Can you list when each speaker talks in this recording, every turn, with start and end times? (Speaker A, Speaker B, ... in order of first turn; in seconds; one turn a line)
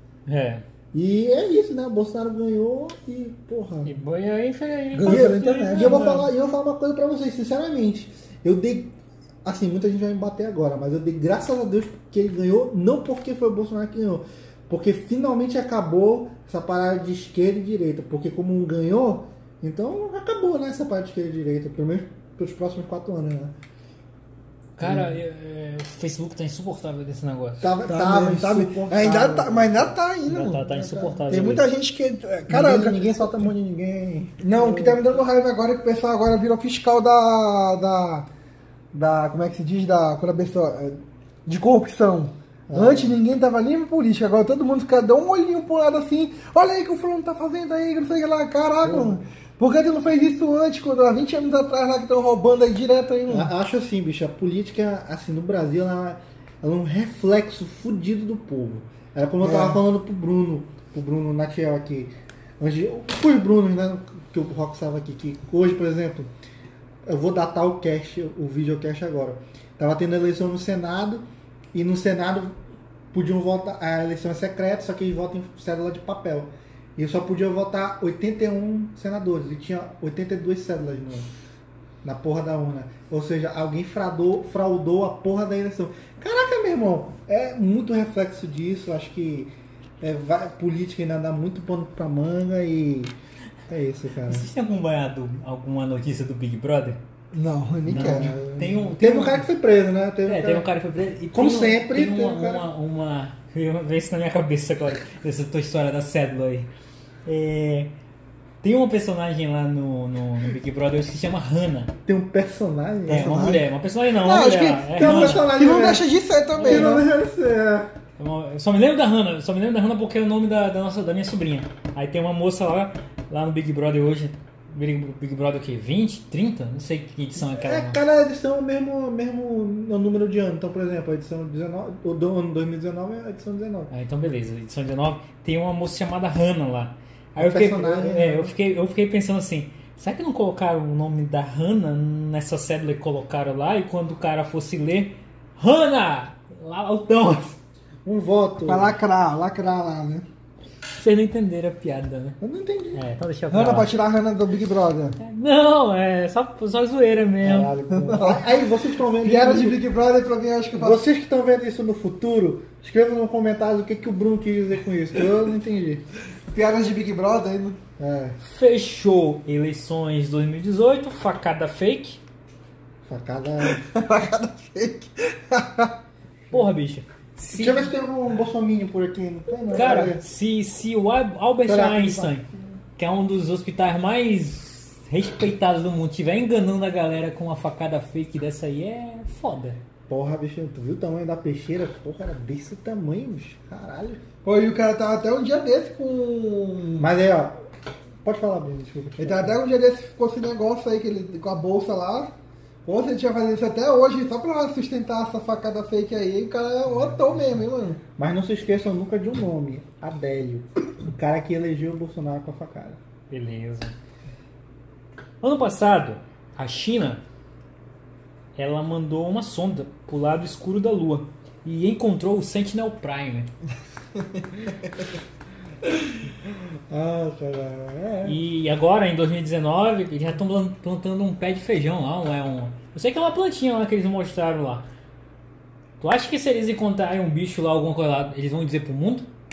Speaker A: 0.2-0.6
Speaker B: 0.9-3.9
Speaker A: 3.8-6.3
Speaker C: 4.9-6.2
Speaker B: 5.0-23.5
Speaker A: 24.8-27.7
Speaker B: 27.6-29.9
Speaker C: 27.8-30.7
Speaker A: 30.3-31.7
Speaker B: 30.6-31.5
Speaker C: 31.3-33.5
Speaker B: 32.5-35.0
Speaker C: 34.4-38.3
Speaker C: 38.9-53.5
Speaker B: 42.7-43.2
Speaker B: 48.8-49.2
Speaker B: 53.3-66.3
Speaker C: 59.4-59.8
Speaker B: 67.0-72.6
Speaker B: 73.1-81.3
Speaker B: 82.0-93.1
Speaker B: 93.7-94.5
Speaker A: 94.3-97.0
Speaker C: 97.3-98.4
Speaker A: 97.8-99.5
Speaker B: 97.9-100.7
Speaker A: 100.2-106.7
Speaker B: 101.3-102.6
Speaker A: 107.2-107.9
Speaker A: 108.6-111.9
Speaker B: 112.0-113.6
Speaker A: 113.0-115.5
Speaker C: 113.1-117.0
Speaker B: 115.0-116.1
Speaker A: 116.5-116.9
Speaker B: 116.6-117.9
Speaker A: 118.2-128.0
Speaker B: 127.3-133.9
Speaker A: 133.9-147.5
Speaker B: 137.4-138.5
Speaker B: 148.0-148.9
Speaker C: 148.7-150.2
Speaker A: 150.9-152.4
Speaker B: 152.4-153.0
Speaker A: 152.9-153.9
Speaker C: 153.5-155.2
Speaker A: 155.2-157.7
Speaker B: 157.4-159.8
Speaker C: 157.9-158.6
Speaker C: 159.2-161.0
Speaker B: 160.8-166.0
Speaker C: 166.5-167.8
Speaker B: 168.0-168.4
Speaker A: 168.4-172.2
Speaker B: 173.0-173.8
Speaker C: 173.6-175.9
Speaker A: 176.5-177.9
Speaker B: 177.5-180.2
Speaker A: 179.7-182.4
Speaker B: 181.6-182.4
Speaker A: 183.0-189.8
Speaker B: 190.1-194.2
Speaker C: 194.4-197.1
Speaker B: 197.0-197.6
Speaker B: 198.2-199.5
Speaker C: 199.2-208.0
Speaker B: 208.2-213.0
Speaker A: 213.3-213.9
Speaker A: 215.4-217.2
Speaker A: 218.6-223.5
Speaker B: 226.4-228.4
Speaker A: 228.2-234.9
Speaker A: 236.0-239.3